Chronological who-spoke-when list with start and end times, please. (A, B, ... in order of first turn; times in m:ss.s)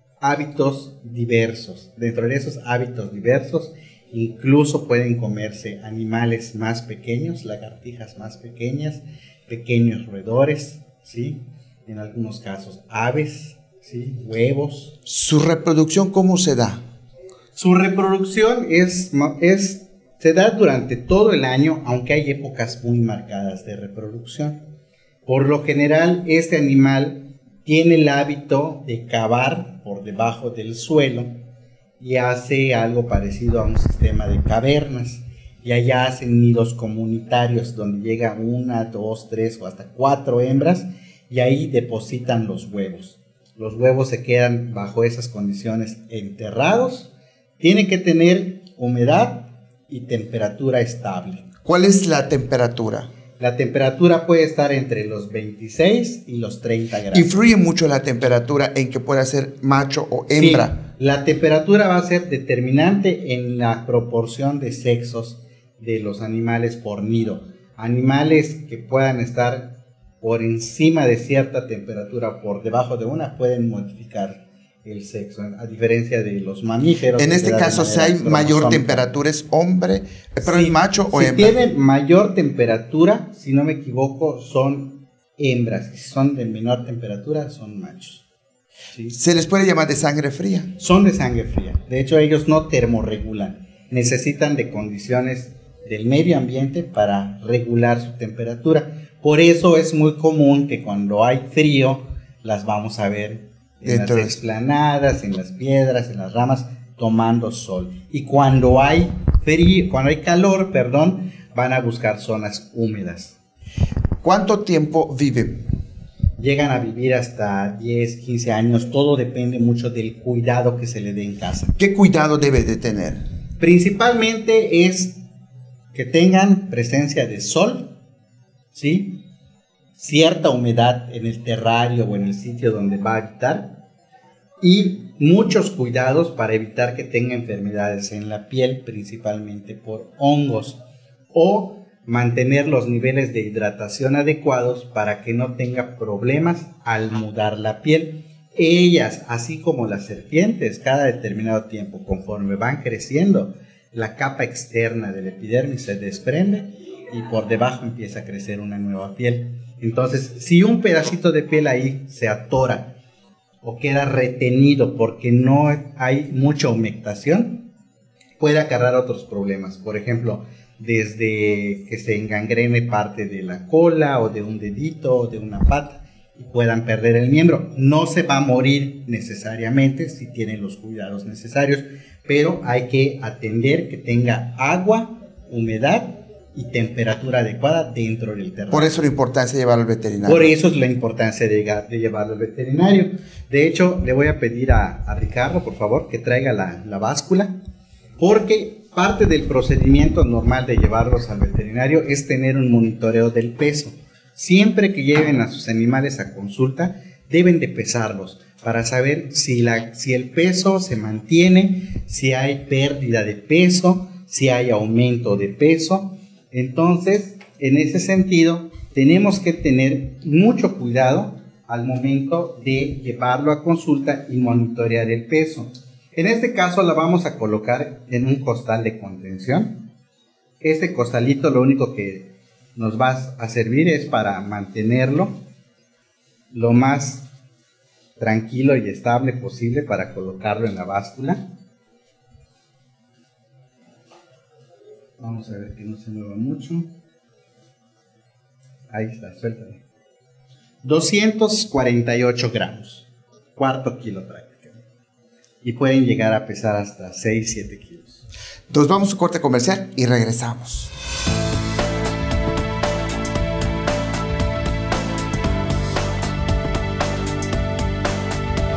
0:00.2-0:14.9 A
0:15.0-0:16.8 B
0:17.6-0:24.6 A
0:25.2-0:31.3 A
0:32.0-0:51.4 A
0:51.6-0:53.1 B
0:53.4-0:57.3 A
0:57.1-1:00.8 B
1:00.3-1:19.1 A
1:17.2-1:21.5 B
1:20.4-1:28.2 A
1:29.1-1:30.7 B
1:30.8-1:53.3 A
1:43.8-1:44.4 B
1:54.2-1:55.6 B
1:56.4-2:01.7 A
2:01.8-2:03.2 B
2:03.6-2:05.2 A
2:05.9-2:07.9 A
2:08.7-2:09.2 A
2:10.0-2:13.8 A
2:14.6-2:20.8 A
2:21.3-2:42.9 A
2:43.6-2:47.6 A
2:48.4-3:09.0 A
3:08.7-3:10.5 B
3:10.2-3:17.5 A
3:18.2-3:49.8 A
3:50.6-3:55.4 A
3:56.5-3:57.2 A
3:58.2-4:01.4 A
4:05.2-4:06.9 A
4:08.9-4:09.8 A
4:10.8-4:13.0 A
4:13.6-4:14.8 A
4:15.6-4:18.2 A
4:18.7-4:20.9 B